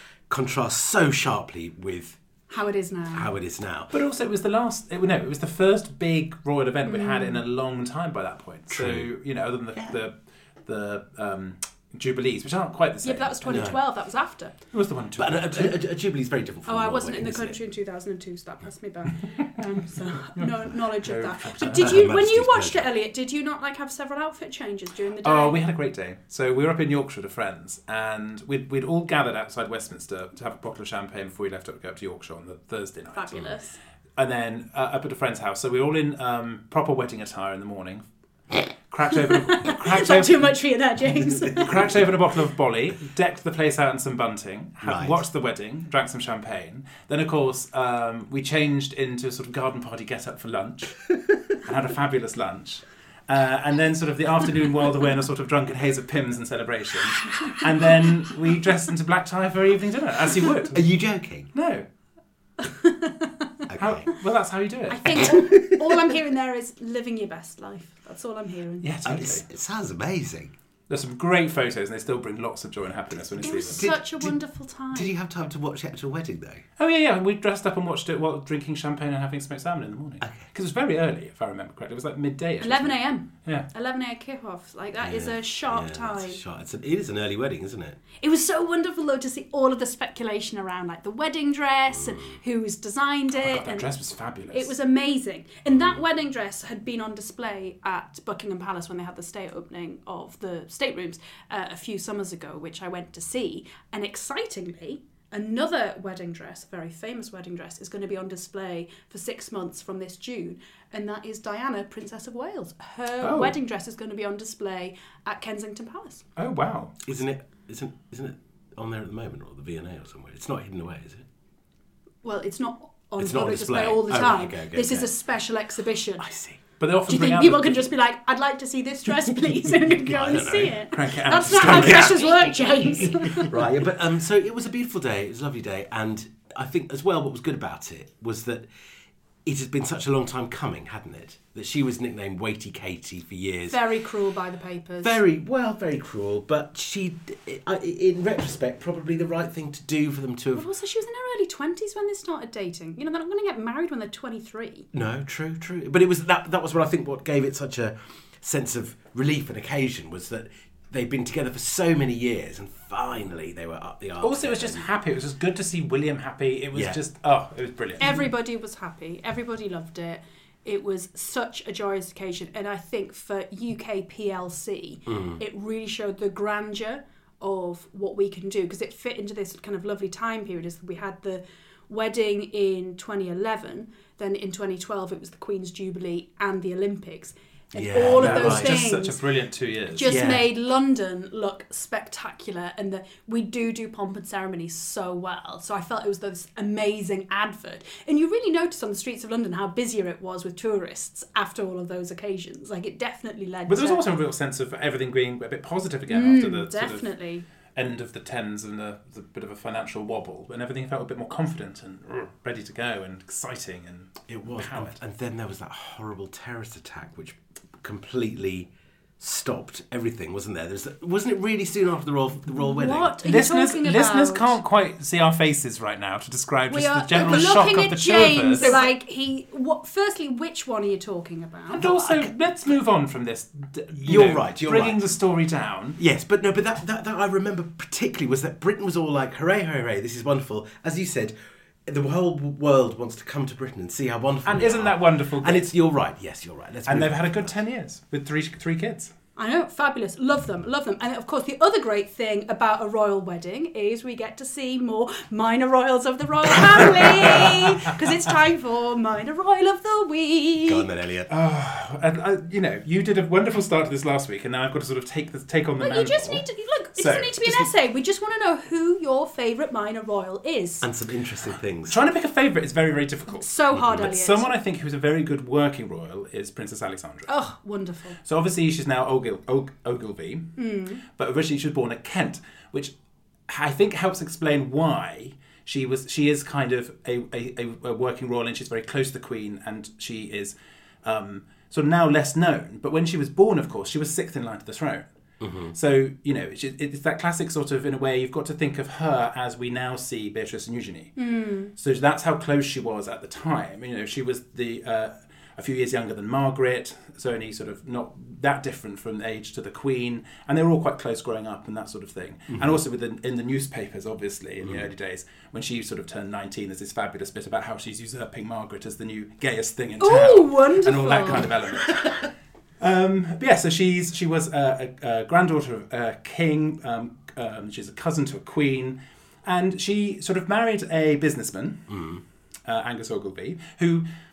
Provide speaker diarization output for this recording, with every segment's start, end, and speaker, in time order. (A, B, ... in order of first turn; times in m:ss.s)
0:00.3-0:02.2 A
0:02.5-0:03.3 B
0:03.1-0:03.9 A
0:03.9-0:10.1 C
0:06.8-0:07.4 B
0:08.7-0:09.1 A
0:10.6-0:13.8 C
0:13.0-0:14.6 B
0:13.5-0:13.8 A
0:14.7-0:15.8 C
0:15.2-0:17.6 A
0:16.6-0:25.6 B
0:20.4-0:22.1 C
0:21.7-0:22.8 A
0:25.2-0:33.6 C
0:33.1-0:33.8 B
0:34.2-0:38.0 C
0:38.9-0:40.5 C
0:39.2-0:42.0 B
0:41.6-0:51.1 C
0:44.8-0:45.2 A
0:51.6-1:00.8 C
1:00.7-1:01.5 A
1:01.5-1:01.8 C
1:02.6-1:03.7 B
1:03.7-1:04.0 A
1:03.8-1:05.3 C
1:04.9-1:08.8 B
1:05.4-1:06.0 A
1:08.8-1:09.4 C
1:09.0-1:10.5 A
1:10.9-1:13.9 C
1:13.4-1:15.1 B
1:13.7-1:14.4 A
1:14.9-1:16.6 A
1:16.8-1:23.7 C
1:22.6-1:26.4 B
1:25.0-1:28.0 A
1:28.2-1:33.9 B
1:32.0-1:32.2 A
1:33.3-1:34.7 C
1:34.5-1:56.2 B
1:35.7-1:36.0 A
1:53.2-1:53.6 C
1:56.4-1:57.0 C
1:57.0-2:01.2 A
2:02.2-2:06.2 B
2:03.2-2:05.1 A
2:06.2-2:07.9 C
2:07.1-2:13.5 B
2:09.9-2:10.8 A
2:10.9-2:13.5 C
2:11.5-2:12.2 A
2:13.4-2:18.6 A
2:19.4-2:23.8 A
2:23.7-2:25.2 B
2:25.0-2:30.7 A
2:30.5-2:34.9 B
2:34.9-2:44.9 A
2:44.2-2:48.3 C
2:48.0-3:09.2 B
2:55.1-2:55.4 A
3:07.7-3:08.9 A
3:08.1-3:10.2 C
3:09.9-3:24.0 B
3:10.0-3:10.4 A
3:23.7-3:27.1 C
3:26.1-3:27.4 B
3:27.7-3:35.0 C
3:34.3-3:43.2 A
3:42.6-3:44.6 B
3:43.2-3:48.8 C
3:46.7-3:52.3 B
3:47.1-3:47.6 A
3:51.7-3:56.0 C
3:54.0-3:55.0 A
3:56.0-4:01.3 A
4:01.8-4:07.5 A
4:04.4-4:05.7 C
4:06.8-4:09.1 C
4:09.4-4:20.8 B
4:17.0-4:17.8 C
4:20.6-4:21.3 A
4:21.3-4:26.4 C
4:25.8-4:30.9 B
4:26.9-4:27.7 C
4:30.8-4:32.0 A
4:31.9-4:37.3 C
4:33.3-4:34.5 B
4:37.3-4:38.2 B
4:38.2-4:42.9 C
4:40.6-4:41.0 B
4:43.5-4:55.0 C
4:55.4-4:55.7 A
4:55.7-5:01.2 C
5:01.2-5:01.7 B
5:01.7-5:22.2 C
5:20.0-5:21.5 B
5:22.8-5:32.0 C
5:31.9-5:32.2 A
5:32.7-5:34.1 C